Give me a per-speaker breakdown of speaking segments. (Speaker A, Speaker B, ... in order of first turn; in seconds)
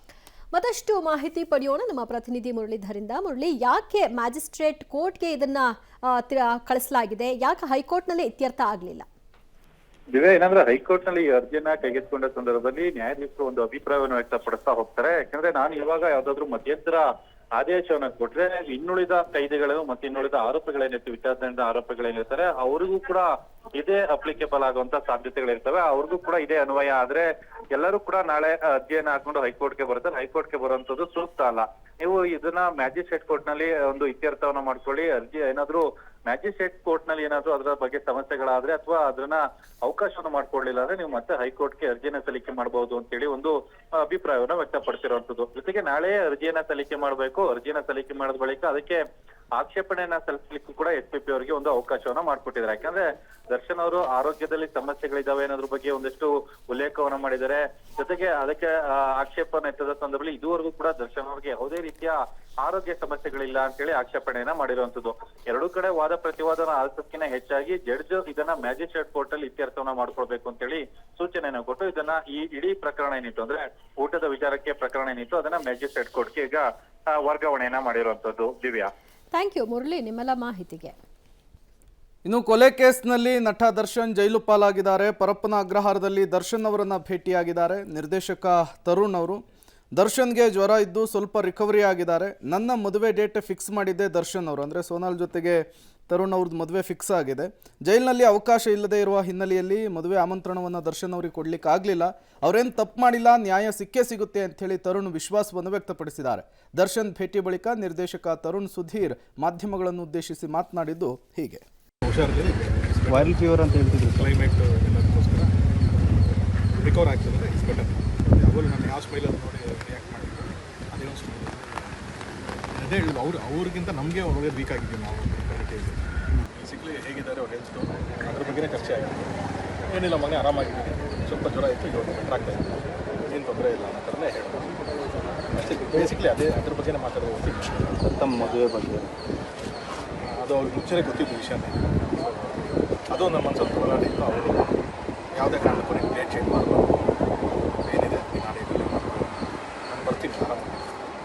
Speaker A: 0.5-9.1, 79.3-80.9
Speaker B: 10.1-17.0, 17.6-49.0, 49.6-78.9
Speaker C: 82.2-89.4, 89.9-111.6
Speaker D: 112.0-115.5, 116.7-122.0, 122.7-129.3, 129.9-134.8, 135.5-138.1, 140.3-144.8, 145.3-150.9
Speaker E: 113.1-114.2, 138.0-139.1